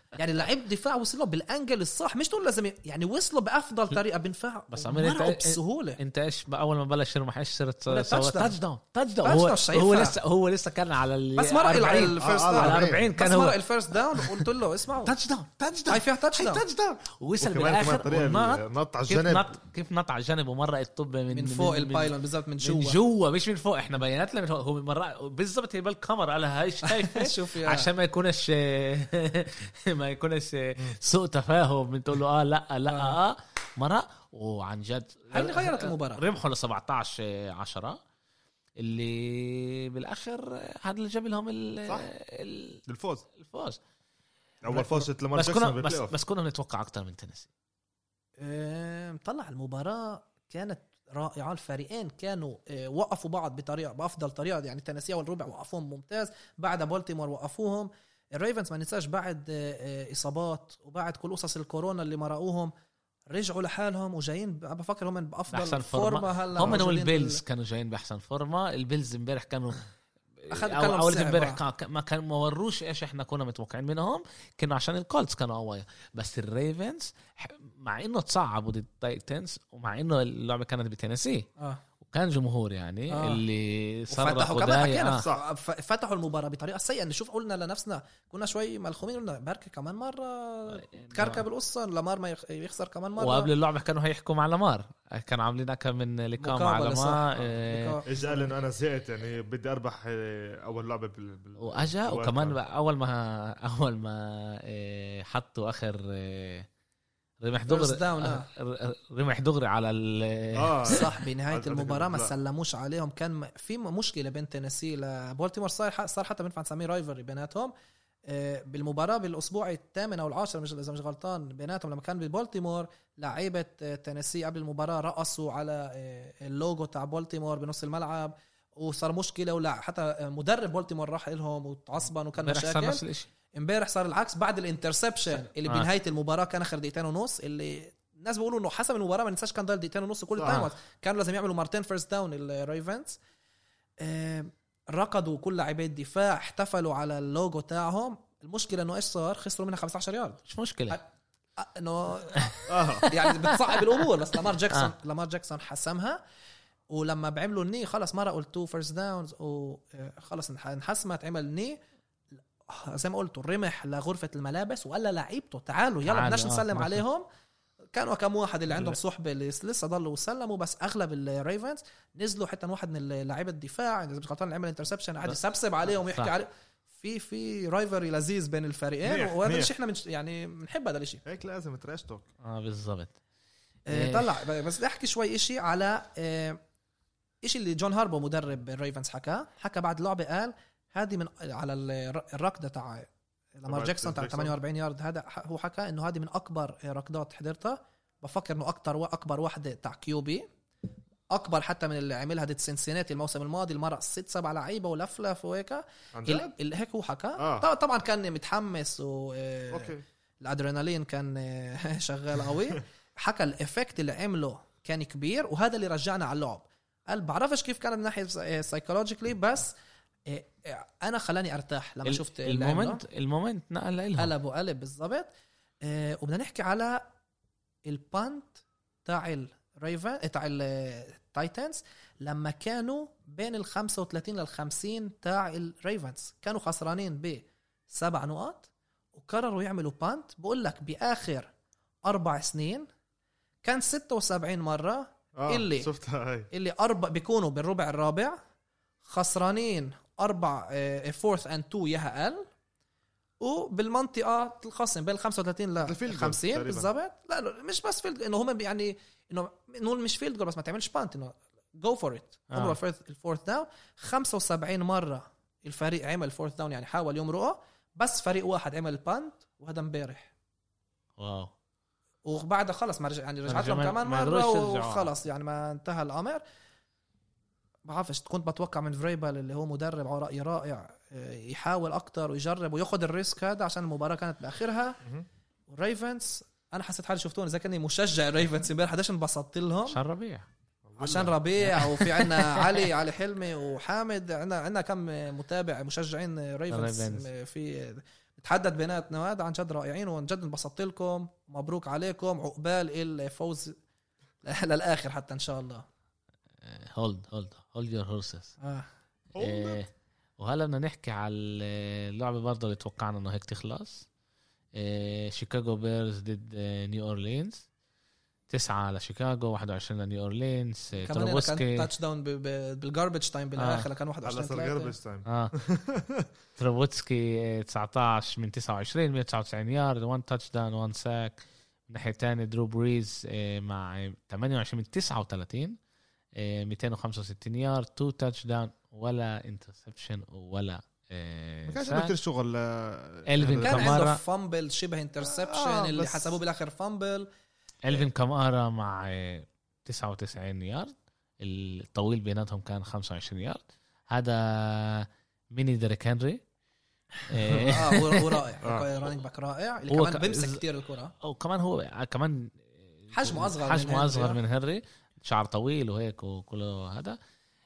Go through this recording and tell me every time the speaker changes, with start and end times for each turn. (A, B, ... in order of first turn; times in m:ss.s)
0:00.1-0:06.0 A
0:04.7-0:13.6 B
0:07.9-0:08.5 A
0:09.2-0:10.2 A
0:11.4-0:15.1 A
0:12.2-0:13.1 C
0:14.1-0:14.4 B
0:15.0-0:38.0 B
0:15.9-0:16.6 A
0:17.4-0:19.5 C
0:21.3-0:23.0 A
0:26.8-0:27.9 A
0:32.9-0:33.2 A
0:35.3-0:36.2 A
0:38.8-0:42.8 B
0:42.9-0:43.2 C
0:43.4-0:43.8 B
0:44.6-0:46.1 C
0:44.7-0:45.1 A
0:45.3-0:47.5 B
0:48.4-1:02.7 A
1:03.3-1:07.4 A
1:05.5-1:21.5 B
1:10.5-1:11.6 A
1:22.0-1:25.2 B
1:23.1-1:23.4 A
1:24.1-1:33.5 A
1:30.8-1:31.4 B
1:33.2-1:38.0 B
1:36.4-1:38.5 A
1:38.1-1:42.6 C
1:41.6-1:46.7 B
1:47.4-1:51.0 B
1:47.7-1:48.5 A
1:50.5-1:52.3 C
1:50.8-1:57.7 A
1:58.3-2:13.0 A
2:12.4-2:13.3 B
2:13.6-2:23.2 A
2:20.4-2:20.6 C
2:24.0-2:31.0 A
2:30.5-2:31.0 B
2:31.6-2:36.2 A
2:32.7-2:33.1 C
2:33.0-2:34.0 B
2:36.9-2:41.8 A
2:42.7-2:47.2 A
2:46.0-2:47.0 B
2:47.9-3:01.2 A
2:56.1-2:56.3 B
2:59.0-2:59.7 C
3:01.2-3:02.3 C
3:02.4-3:03.1 B
3:03.9-3:06.6 A
3:03.9-3:04.4 B
3:07.4-3:20.4 A
3:13.7-3:14.6 C
3:21.3-3:39.7 A
3:26.1-3:26.5 C
3:27.4-3:27.7 C
3:29.7-3:30.0 C
3:40.3-3:43.0 A
3:42.0-3:44.3 B
3:44.2-3:45.3 A
3:45.8-3:47.0 A
3:47.8-4:01.5 A
4:02.0-4:02.8 A
4:03.6-4:05.9 A
4:05.4-4:06.5 C
4:06.5-4:08.4 A
4:09.1-4:12.4 A
4:13.4-4:30.3 A
4:15.8-4:16.9 C
4:22.5-4:22.8 B
4:31.2-4:31.5 B
4:32.2-4:36.4 A
4:33.5-4:35.1 B
4:37.8-4:45.0 A
4:45.7-4:50.0 A
4:49.9-4:50.4 B
4:50.8-4:51.3 C
4:51.0-5:03.8 A
4:51.6-4:52.8 B
4:56.7-4:57.2 B
5:04.4-5:05.8 A
5:06.6-5:08.5 B
5:08.6-5:08.9 A
5:09.3-5:09.8 C
5:09.4-5:09.9 B
5:10.4-5:14.0 B
5:14.7-5:17.6 B
5:18.5-5:21.9 B
5:21.0-5:24.9 A
5:23.6-5:23.8 B
5:24.2-5:26.3 C
5:25.2-5:25.5 B
5:26.6-5:35.8 B
5:36.4-5:42.1 B
5:41.6-5:44.0 C
5:43.3-5:44.2 B
5:43.6-5:47.3 A
5:45.2-5:46.4 C
5:47.8-5:56.4 B
5:57.2-5:58.4 B
5:57.5-6:01.1 A
5:58.6-5:58.9 C
5:59.9-6:00.6 B
6:01.2-6:07.2 B
6:03.1-6:04.4 A